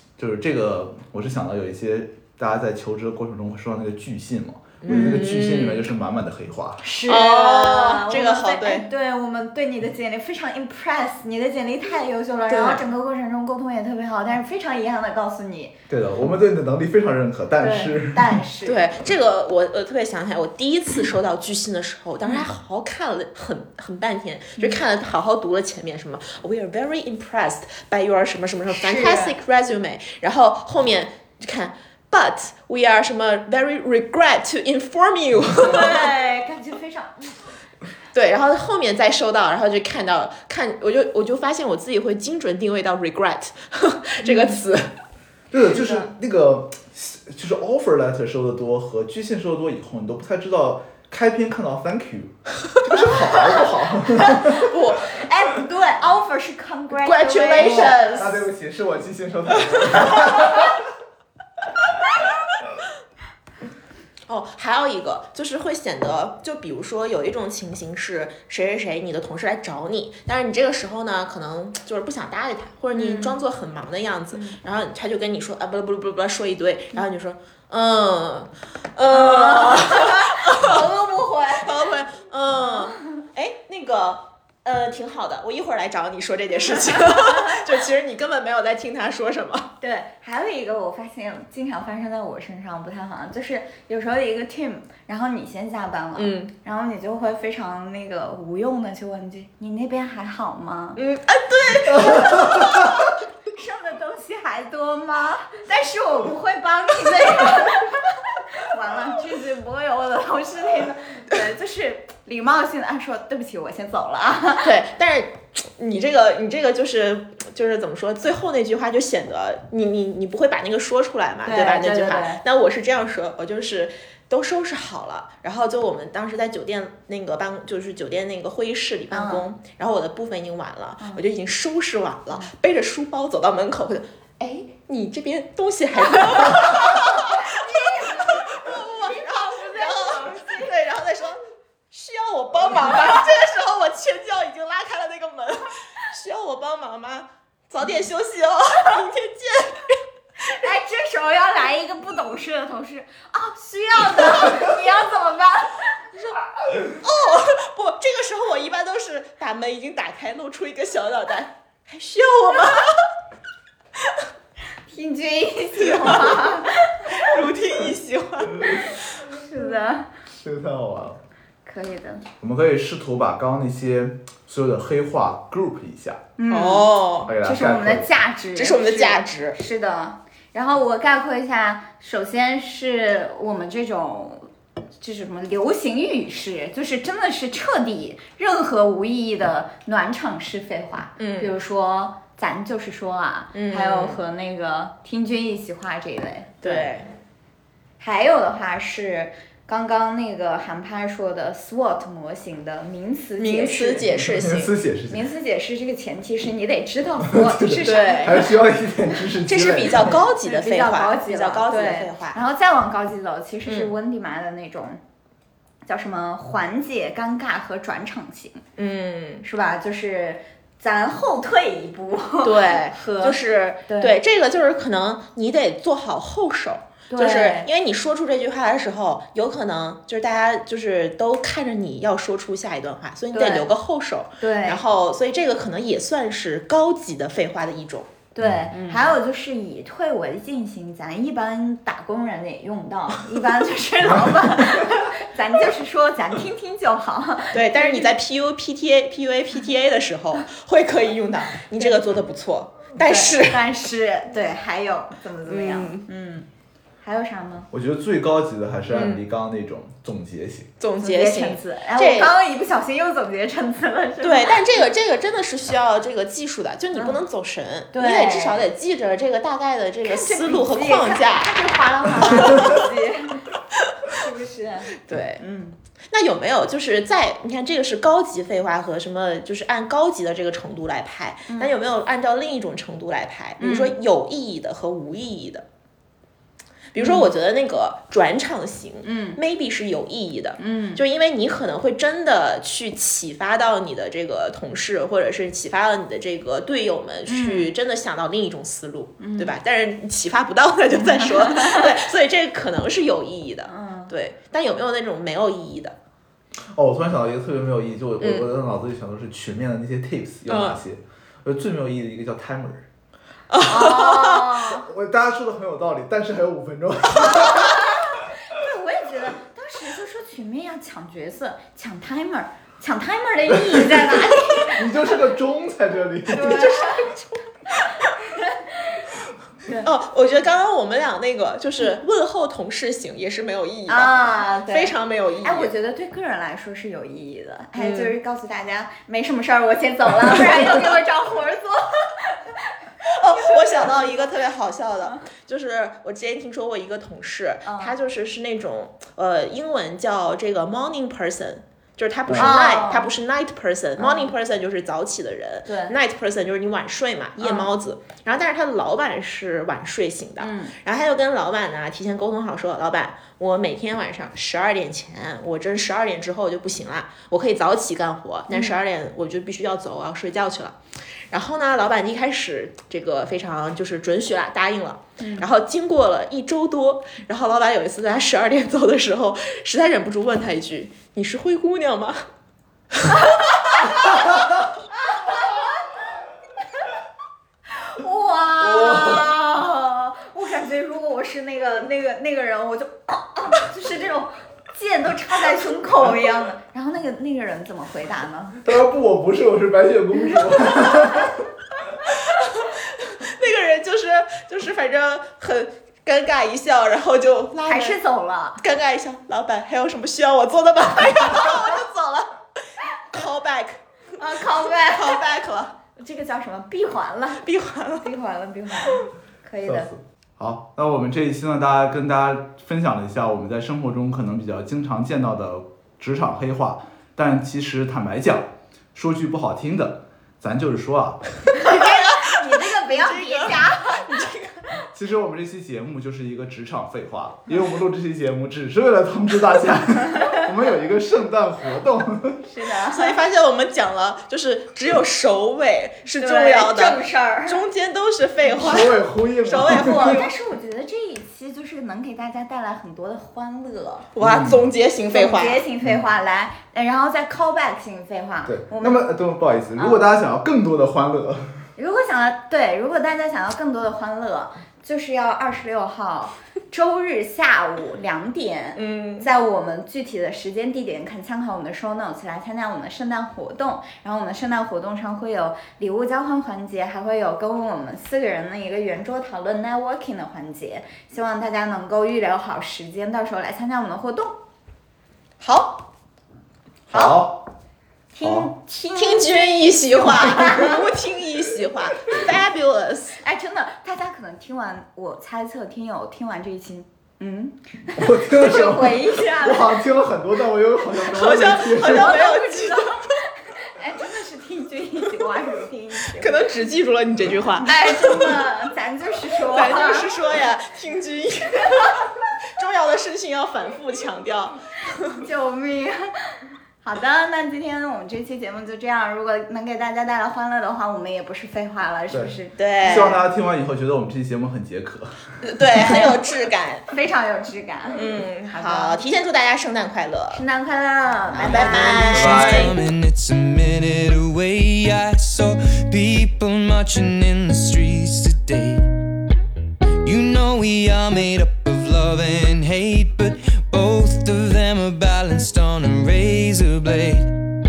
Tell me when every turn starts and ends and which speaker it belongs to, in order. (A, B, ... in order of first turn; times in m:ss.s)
0:00.2-0:06.8 A
0:04.8-0:05.9 B
0:04.9-0:05.2 C
0:06.8-0:15.7 C
0:07.1-0:08.9 B
0:12.5-0:12.8 B
0:15.9-0:18.4 A
0:17.6-0:18.8 C
0:18.6-0:36.1 B
0:22.2-0:22.5 C
0:28.7-0:29.4 C
0:35.6-0:37.4 C
0:38.1-0:44.9 B
0:44.2-0:44.6 C
0:45.5-0:54.8 A
0:45.7-0:46.1 C
0:52.9-0:53.7 B
0:54.2-0:58.3 C
0:54.5-0:55.2 B
0:57.0-0:58.4 B
0:57.6-1:00.8 A
0:59.6-1:00.6 B
1:04.3-1:20.8 B
1:12.9-1:13.4 C
1:14.3-1:14.6 C
1:19.1-1:21.9 C
1:21.6-1:29.7 B
1:22.5-1:23.2 C
1:26.7-1:27.6 C
1:29.8-1:41.0 C
1:36.2-1:36.5 B
1:41.0-1:43.0 B
1:42.1-1:42.7 A
1:43.5-1:54.7 C
1:54.6-2:21.4 B
2:01.4-2:02.4 C
2:09.1-2:09.5 C
2:16.1-2:20.8 C
2:21.9-2:30.0 B
2:30.5-2:35.9 C
2:36.2-2:43.0 B
2:44.9-2:47.3 C
2:45.8-2:46.4 B
2:47.1-2:49.2 B
2:48.9-2:50.1 C
2:50.3-2:51.2 A
2:51.6-2:52.2 C
2:52.4-2:56.2 A
2:56.4-3:04.5 C
2:56.5-2:57.3 B
2:57.2-2:58.1 A
2:58.6-2:59.6 B
3:05.0-3:16.9 C
3:11.2-3:11.5 B
3:13.5-3:14.2 B
3:16.6-3:17.1 B
3:18.0-3:24.1 C
3:23.4-3:24.7 B
3:24.1-3:25.3 A
3:25.1-3:28.5 C
3:27.3-3:30.2 A
3:27.8-3:28.5 B
3:29.5-3:32.4 B
3:30.4-3:35.0 C
3:33.7-3:33.9 B
3:35.9-3:38.6 C
3:38.8-3:39.4 B
3:39.4-3:44.2 C
3:42.4-3:58.1 B
3:47.1-3:47.7 C
3:53.3-3:53.7 C
3:54.4-3:54.8 C
3:58.4-4:08.1 C
3:58.7-3:59.2 B
4:07.5-4:13.7 B
4:13.0-4:16.5 C
4:15.5-4:16.1 B
4:17.0-4:17.7 C
4:17.7-4:20.7 A
4:18.9-4:19.2 B
4:20.8-4:22.4 B
4:21.0-4:24.9 C
4:24.2-4:31.6 B
4:26.9-4:27.2 C
4:27.9-4:28.7 C
4:30.0-4:33.5 C
4:32.2-4:32.8 B
4:34.1-4:35.8 C
4:35.1-4:35.4 B
4:36.1-4:45.6 B
4:43.6-4:44.0 C
4:46.9-5:06.0 B
4:47.0-4:47.3 C
4:49.0-4:49.4 C
4:50.6-4:51.0 C
4:57.3-4:57.7 C
4:59.2-4:59.5 C
5:00.9-5:01.9 C
5:03.7-5:04.1 C
5:06.8-5:12.8 A
5:08.2-5:08.5 B
5:10.5-5:10.8 B
5:13.5-5:14.7 B
5:13.6-5:14.9 C
5:14.8-5:17.8 A
5:17.2-5:25.2 C
5:23.7-5:24.0 A
5:24.7-5:26.7 A
5:26.3-5:27.3 C
5:26.4-5:26.9 B
5:27.8-5:28.1 B
5:27.9-5:29.0 C
5:29.7-5:29.9 C
5:29.8-5:35.7 B
5:33.9-5:44.2 C
5:37.8-5:38.2 B
5:43.0-6:10.8 B
5:47.7-5:48.0 C
5:52.3-5:52.5 A
5:52.4-5:53.1 C
5:54.0-5:54.4 C
5:55.7-5:56.0 C
5:57.4-5:57.7 C
6:00.4-6:00.8 C
6:08.5-6:08.8 C
6:11.3-6:22.2 B
6:15.2-6:15.5 C
6:22.9-6:24.2 B
6:23.8-6:24.1 C
6:25.1-6:25.8 C
6:27.8-6:38.6 C
6:28.7-6:29.3 A
6:38.6-6:41.5 A
6:40.7-6:41.3 C
6:42.1-6:48.0 B
6:47.6-6:48.6 C
6:48.6-6:52.3 B
6:53.1-6:53.8 B
6:54.2-6:55.2 C
6:54.8-6:55.7 B
6:56.0-6:57.4 C
6:57.4-6:58.1 B
6:58.0-6:59.9 C
6:59.6-7:11.2 A
7:11.5-7:14.3 C
7:11.6-7:14.6 B
7:14.9-7:22.4 A
7:20.2-7:20.4 C
7:22.4-7:23.2 C
7:22.9-7:30.3 B
7:26.2-7:27.6 C
7:28.6-7:30.3 A
7:29.6-7:34.1 C
7:34.2-7:35.6 B
7:34.2-7:34.7 A
7:35.1-7:39.1 C
7:38.5-7:41.6 A
7:39.8-7:40.1 C
7:41.8-8:04.4 C
7:48.8-7:49.3 B
8:05.4-8:05.9 B
8:06.9-8:07.5 A
8:06.9-8:07.3 C
8:08.1-8:10.9 C
8:08.2-8:08.5 A
8:08.9-8:13.2 B
8:13.2-8:19.8 C
8:18.0-8:22.2 A
8:21.0-8:23.2 B
8:21.8-8:26.4 C
8:26.2-8:28.5 B
8:27.6-8:30.1 C
8:29.5-8:35.2 B
8:35.1-8:43.2 C
8:42.1-8:45.9 A
8:42.6-8:43.2 B
8:45.4-8:46.9 B
8:46.9-8:49.0 C
8:47.9-8:50.4 B
8:50.3-8:52.1 C
8:51.3-8:52.8 B
8:51.6-8:59.0 D
8:52.0-8:52.8 A
9:00.0-9:07.4 D